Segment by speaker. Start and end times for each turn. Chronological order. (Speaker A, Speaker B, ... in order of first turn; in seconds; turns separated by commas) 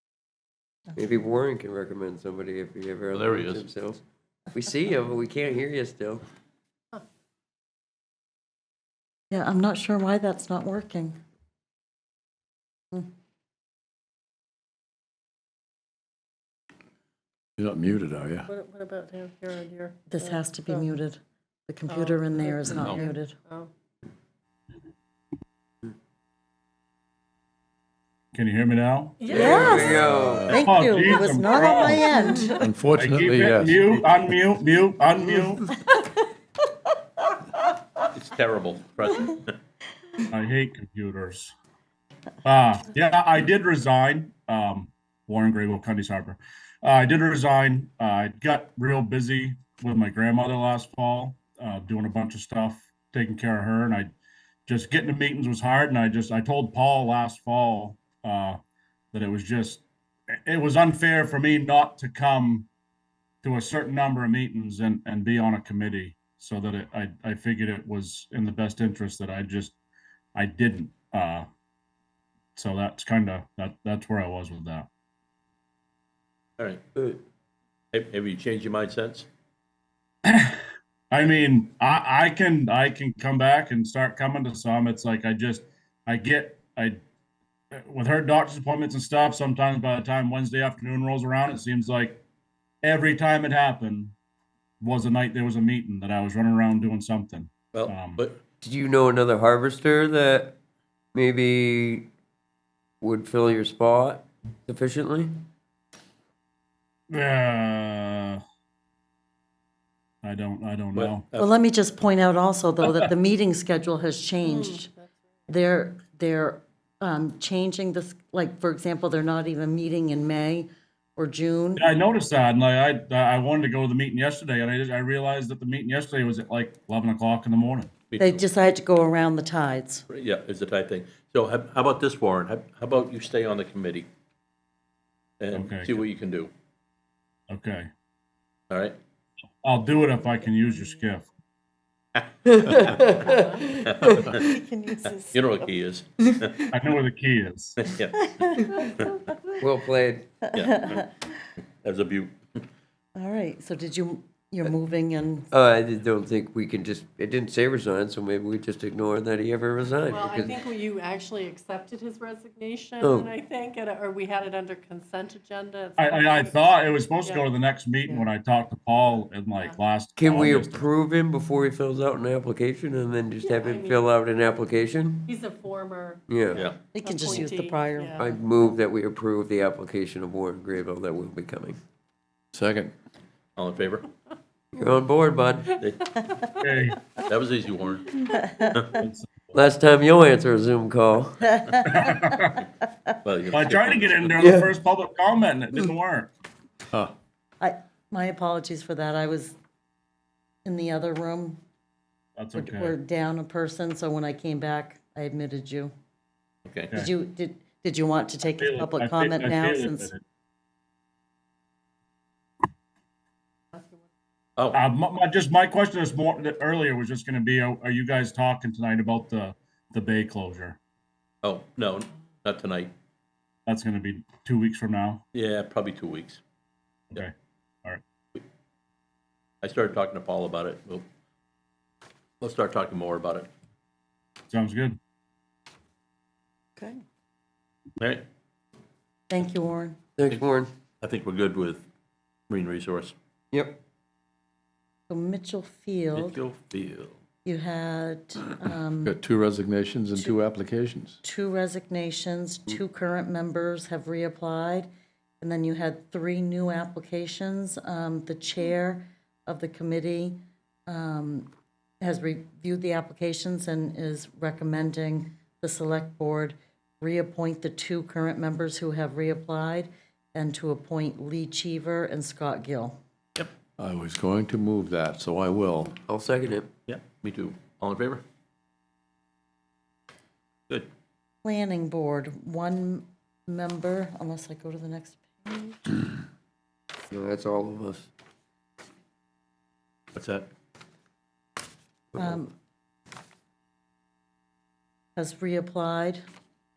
Speaker A: 0.9-4.0, Speaker B: 3.1-3.7, Speaker A: 4.5-6.2, Speaker C: 9.3-11.2, Speaker D: 17.6-18.5, Speaker E: 18.5-20.9, Speaker C: 20.1-23.4, Speaker E: 21.9-23.7, Speaker F: 28.3-29.9, Speaker E: 29.2-30.1, Speaker A: 29.3-30.5, Speaker C: 29.3-32.6, Speaker D: 29.9-30.7, Speaker F: 30.5-32.0, Speaker E: 31.7-32.6, Speaker D: 31.8-33.9, Speaker F: 33.0-35.7, Speaker B: 38.1-39.5, Speaker F: 40.3-41.5, Speaker F: 42.4-54.1, Speaker F: 54.7-58.6, Speaker F: 59.1-59.8, Speaker F: 60.5-62.7, Speaker F: 63.4-69.8, Speaker F: 70.3-71.5, Speaker F: 72.6-74.9, Speaker B: 76.6-77.1, Speaker B: 77.9-79.3, Speaker F: 80.2-87.0, Speaker F: 87.7-92.2, Speaker F: 92.8-94.1, Speaker F: 94.8-98.2, Speaker B: 97.7-98.4, Speaker A: 98.6-100.6, Speaker A: 101.2-102.1, Speaker A: 103.0-105.4, Speaker F: 107.1-108.4, Speaker F: 110.2-111.2, Speaker B: 111.0-111.5, Speaker C: 111.4-114.9, Speaker E: 114.4-115.1, Speaker C: 115.5-121.9, Speaker F: 121.8-128.0, Speaker B: 128.1-128.4, Speaker C: 128.2-130.1, Speaker B: 130.1-134.1, Speaker B: 135.4-136.5, Speaker F: 135.5-136.0, Speaker F: 137.5-137.9, Speaker B: 138.7-139.0, Speaker F: 139.6-141.3, Speaker A: 142.6-144.4, Speaker E: 143.1-143.8, Speaker B: 143.8-144.4, Speaker C: 144.3-145.6, Speaker B: 145.1-146.6, Speaker F: 146.7-147.8, Speaker B: 147.8-149.2, Speaker C: 148.4-148.9, Speaker A: 149.6-150.3, Speaker B: 150.5-151.1, Speaker C: 150.6-151.0, Speaker B: 151.8-152.6, Speaker C: 153.2-155.5, Speaker A: 155.5-160.6, Speaker E: 160.1-167.5, Speaker A: 163.0-163.3, Speaker F: 166.0-170.9, Speaker A: 170.2-175.3, Speaker E: 173.4-174.1, Speaker E: 175.3-178.3, Speaker A: 176.3-176.6, Speaker C: 176.9-178.4, Speaker A: 178.2-181.8, Speaker D: 182.5-182.9, Speaker B: 183.6-184.1, Speaker A: 184.8-185.8, Speaker B: 185.8-186.2, Speaker F: 186.6-187.0, Speaker B: 187.2-189.0, Speaker C: 188.4-188.8, Speaker F: 189.0-189.5, Speaker A: 189.5-191.4, Speaker C: 191.5-192.2, Speaker F: 191.9-192.6, Speaker B: 193.2-194.4, Speaker F: 193.5-196.3, Speaker A: 194.4-194.7, Speaker C: 197.6-199.6, Speaker C: 200.7-201.6, Speaker F: 202.4-202.9, Speaker C: 202.6-205.9, Speaker B: 206.7-206.9, Speaker C: 206.9-210.1, Speaker F: 208.6-210.2, Speaker E: 213.7-214.1, Speaker F: 214.7-220.8, Speaker B: 221.4-222.9, Speaker F: 223.7-225.2, Speaker B: 225.3-226.4, Speaker B: 229.6-231.1, Speaker B: 232.4-233.5, Speaker F: 234.5-235.0, Speaker C: 236.8-237.0, Speaker B: 238.0-238.2, Speaker C: 239.3-240.0, Speaker A: 240.2-240.7, Speaker B: 241.0-241.8, Speaker B: 242.5-243.2, Speaker A: 243.5-243.8, Speaker C: 245.1-246.4, Speaker B: 246.1-247.2, Speaker C: 247.4-249.2, Speaker D: 249.0-251.2, Speaker C: 251.2-254.9, Speaker C: 255.4-261.5, Speaker C: 262.0-273.0, Speaker D: 273.8-276.0, Speaker A: 276.1-276.7, Speaker B: 276.9-278.2, Speaker C: 281.4-285.8, Speaker A: 287.1-288.1, Speaker B: 290.1-290.5, Speaker C: 292.2-292.5, Speaker C: 295.2-296.2